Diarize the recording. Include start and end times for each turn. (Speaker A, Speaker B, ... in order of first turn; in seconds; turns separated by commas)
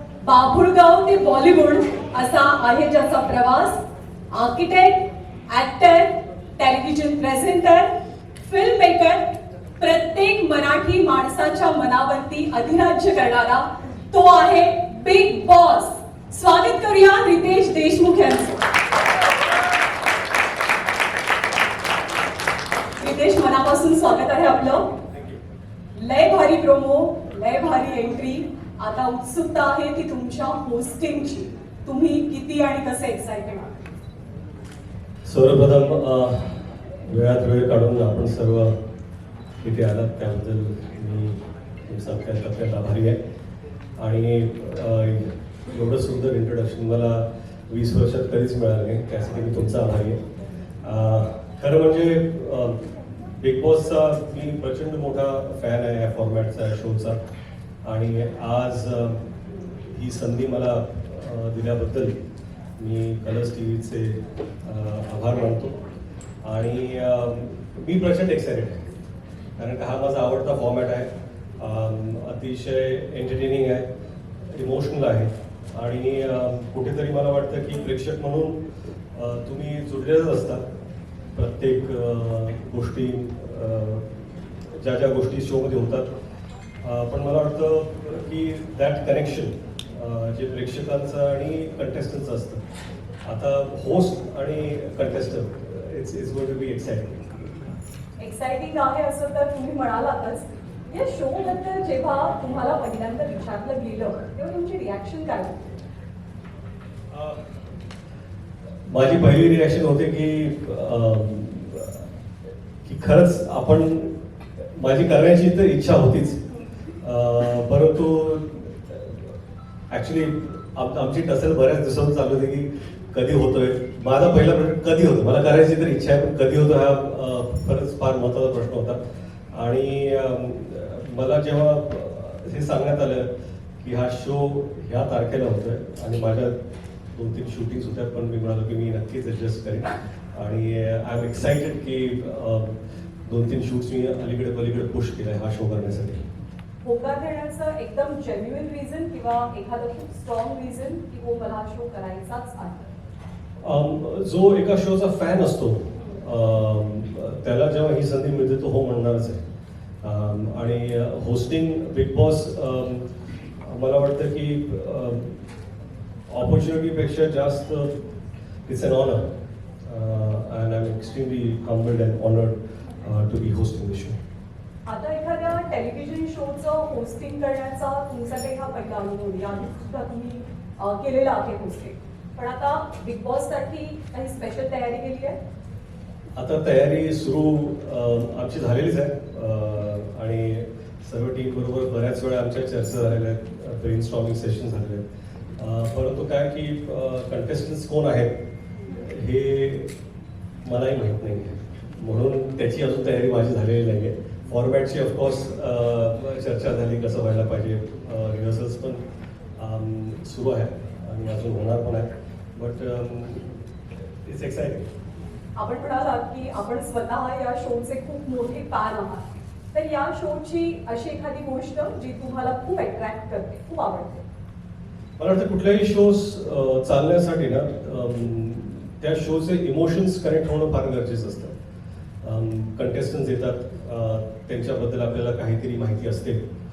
Speaker A: 0.2-7.9, Speaker A: 8.4-18.7, Speaker A: 23.0-24.9, Speaker A: 25.9-33.7, Speaker B: 35.2-38.8, Speaker B: 39.6-43.2, Speaker B: 44.0-50.2, Speaker B: 50.8-52.8, Speaker B: 53.4-57.2, Speaker B: 57.8-62.1, Speaker B: 62.8-65.8, Speaker B: 66.4-68.8, Speaker B: 69.6-73.9, Speaker B: 74.4-78.6, Speaker B: 79.1-80.7, Speaker B: 81.3-86.1, Speaker B: 86.8-92.6, Speaker B: 93.2-97.7, Speaker A: 98.2-105.8, Speaker B: 107.1-107.4, Speaker B: 108.9-112.0, Speaker B: 112.8-116.4, Speaker B: 117.0-119.3, Speaker B: 119.9-129.0, Speaker B: 129.5-136.6, Speaker B: 137.1-146.2, Speaker A: 146.8-152.9, Speaker B: 153.6-159.4, Speaker B: 160.0-163.1, Speaker B: 163.6-165.4, Speaker B: 166.3-167.9, Speaker B: 168.7-169.3, Speaker B: 169.8-174.2, Speaker A: 174.9-185.4, Speaker B: 186.3-195.0, Speaker B: 195.6-198.4, Speaker B: 198.9-199.9, Speaker B: 200.6-209.0, Speaker B: 209.6-213.6, Speaker B: 214.2-214.9, Speaker A: 215.6-224.2, Speaker B: 225.2-231.5, Speaker B: 232.2-236.4